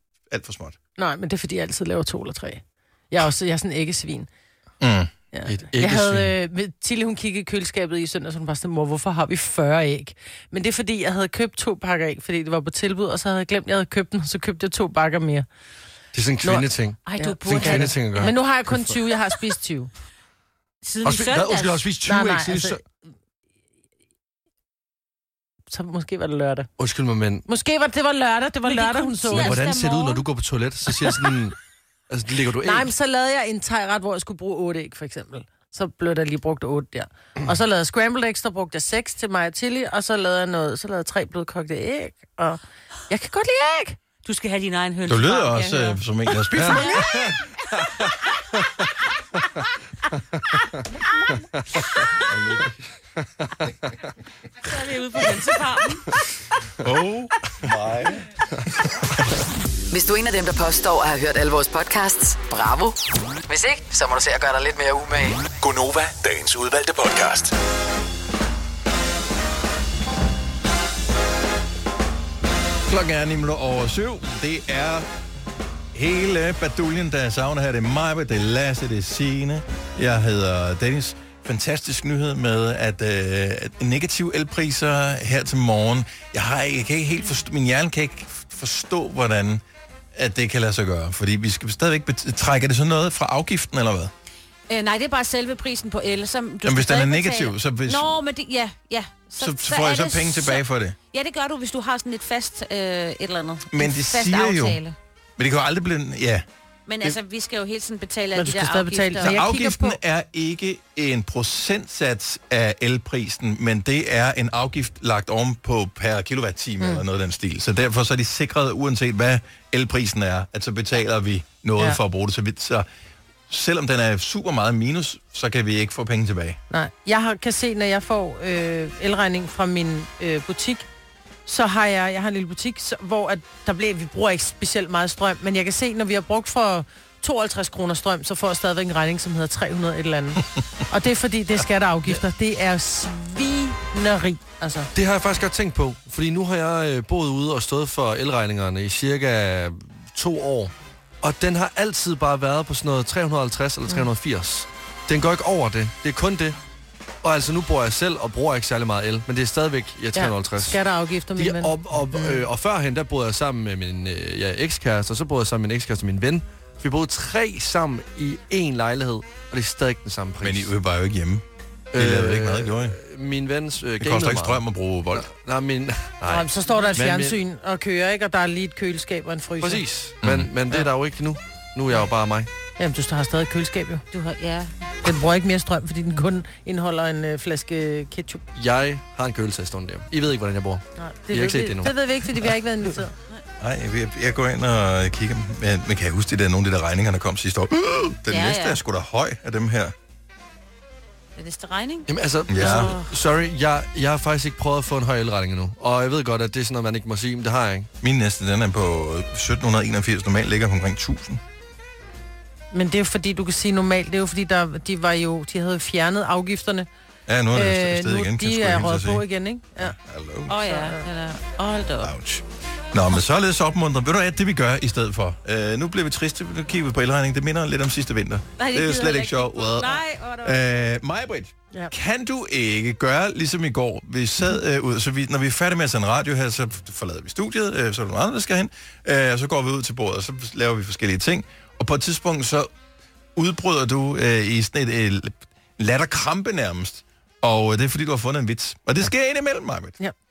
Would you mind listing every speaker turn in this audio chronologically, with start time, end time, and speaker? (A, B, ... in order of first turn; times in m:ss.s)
0:00.3-0:00.8 A
0:01.0-0:04.3 B
0:04.8-0:05.1 A
0:05.3-0:15.5 B
0:05.5-0:06.3 C
0:16.1-0:18.9 C
0:16.4-0:19.9 B
0:17.0-0:18.4 D
0:20.8-0:21.9 D
0:21.0-0:22.8 C
0:22.0-0:22.8 B
0:25.7-0:26.7 B
0:26.8-0:27.4 C
0:27.5-0:29.6 B
0:28.7-0:30.2 D
0:29.3-0:31.6 C
0:32.1-0:32.9 C
0:32.6-0:44.0 B
0:44.2-0:46.0 D
0:45.1-0:47.2 A
0:46.5-0:48.0 C
0:46.7-0:47.1 D
0:51.6-0:51.9 C
0:52.2-0:52.9 A
0:54.6-0:56.1 D
0:56.8-0:58.3 A
0:59.9-1:05.5 E
1:05.5-1:07.5 F
1:12.9-1:15.1 A
1:15.9-1:29.6 A
1:30.2-1:34.1 A
1:34.7-1:45.0 D
1:36.6-1:38.1 A
1:39.4-1:41.0 A
1:43.7-1:44.8 A
1:45.4-1:46.4 A
1:46.9-1:49.3 D
1:48.4-1:50.0 B
1:49.2-2:02.9 A
2:03.5-2:06.6 A
2:06.7-2:10.9 B
2:11.5-2:24.9 B
2:25.0-2:36.6 C
2:37.2-2:40.8 C
2:40.2-2:42.4 B
2:41.4-2:50.7 C
2:50.4-2:53.0 A
2:51.9-2:54.6 C
2:54.0-2:55.3 A
2:55.1-2:57.4 C
2:56.3-2:59.8 B
2:59.6-3:02.5 C
3:00.2-3:00.5 A
3:02.8-3:04.0 B
3:04.1-3:04.7 D
3:05.0-3:08.4 B
3:08.6-3:12.0 C
3:11.0-3:13.1 B
3:13.6-3:20.0 A
3:18.3-3:18.8 D
3:21.4-3:23.1 D
3:22.1-3:27.9 C
3:22.5-3:22.9 A
3:28.0-3:31.4 A
3:32.7-3:36.9 B
3:37.3-3:39.2 A
3:37.5-3:40.0 B
3:39.8-3:40.6 A
3:40.5-3:42.1 D
3:40.7-3:41.0 B
3:42.0-4:02.7 A
3:48.6-3:50.6 D
4:03.4-4:10.0 A